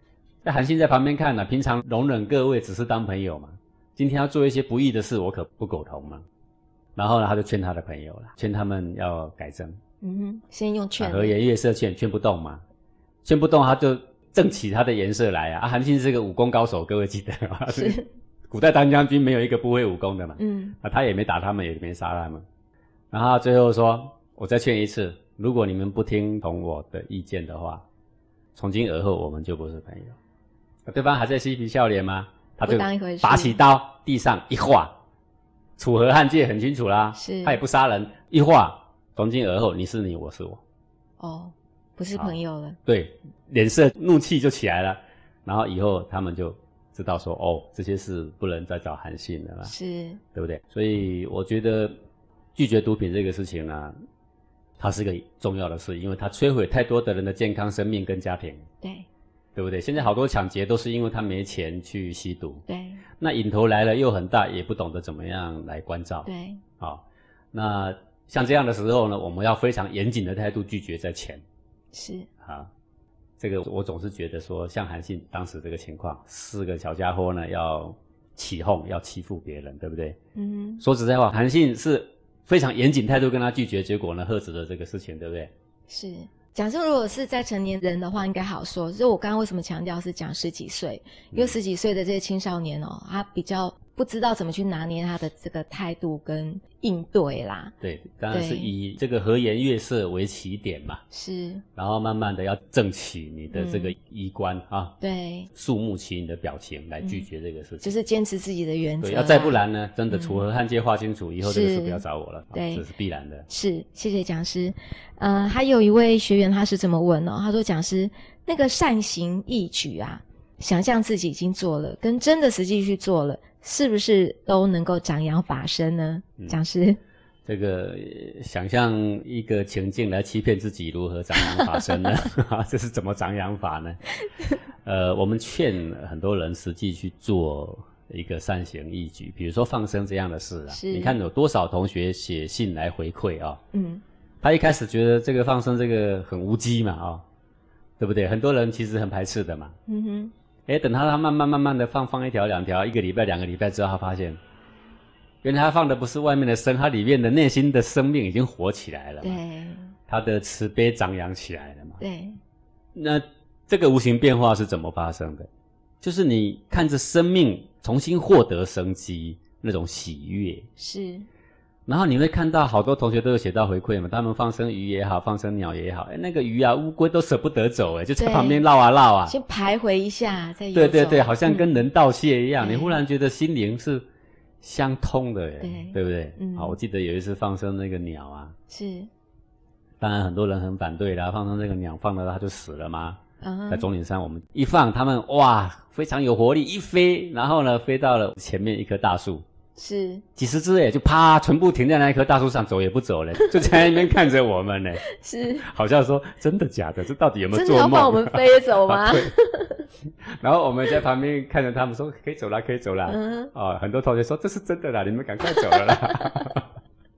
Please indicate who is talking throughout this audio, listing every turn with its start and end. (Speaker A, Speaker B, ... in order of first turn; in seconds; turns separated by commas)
Speaker A: 0.4-6.2, Speaker A: 7.0-9.8, Speaker B: 10.0-11.3, Speaker A: 11.0-12.6, Speaker A: 13.2-22.4, Speaker B: 17.7-18.1, Speaker B: 20.4-20.8, Speaker A: 23.1-27.8, Speaker A: 28.5-30.2, Speaker A: 30.9-34.9, Speaker B: 32.6-33.6, Speaker A: 35.8-40.6, Speaker B: 37.2-37.6, Speaker B: 41.2-42.8, Speaker A: 42.1-49.7, Speaker B: 49.6-50.2, Speaker A: 50.3-52.0, Speaker A: 52.5-53.9, Speaker A: 54.8-58.6, Speaker A: 59.5-62.6, Speaker B: 62.7-63.0, Speaker A: 63.2-66.3, Speaker B: 66.2-66.6, Speaker A: 67.5-71.4, Speaker B: 71.9-72.3, Speaker A: 72.4-72.7, Speaker A: 73.4-80.2, Speaker B: 80.3-80.8, Speaker A: 80.8-85.5, Speaker B: 85.9-97.7, Speaker A: 97.8-101.0, Speaker B: 98.3-98.7, Speaker B: 101.1-101.6, Speaker A: 101.8-105.0, Speaker B: 103.5-103.9, Speaker B: 105.0-105.5, Speaker A: 105.5-107.9, Speaker B: 107.8-110.4, Speaker A: 109.0-113.5, Speaker B: 111.4-112.8, Speaker B: 113.5-127.0, Speaker A: 127.4-134.0, Speaker B: 131.5-132.0, Speaker A: 134.8-143.6, Speaker B: 140.7-141.2, Speaker B: 143.7-144.0, Speaker A: 144.4-147.2, Speaker A: 148.0-149.8, Speaker B: 149.9-150.3, Speaker A: 150.7-154.4, Speaker A: 155.4-159.4, Speaker B: 159.2-159.9, Speaker A: 160.1-162.0, Speaker B: 162.0-162.4, Speaker A: 162.9-165.5, Speaker A: 166.0-170.7, Speaker B: 170.8-171.2, Speaker A: 171.9-179.3, Speaker B: 178.2-178.6, Speaker B: 179.3-181.7, Speaker A: 180.7-184.0, Speaker B: 182.6-183.0, Speaker A: 184.6-188.6, Speaker B: 185.6-186.8, Speaker B: 188.7-189.1, Speaker A: 190.0-199.4, Speaker B: 193.4-193.9, Speaker B: 199.8-200.2, Speaker A: 200.3-205.0, Speaker B: 203.4-203.7, Speaker B: 205.1-205.6, Speaker A: 205.6-209.3, Speaker B: 207.5-209.8, Speaker A: 210.4-216.7, Speaker B: 213.1-213.5, Speaker B: 215.7-216.3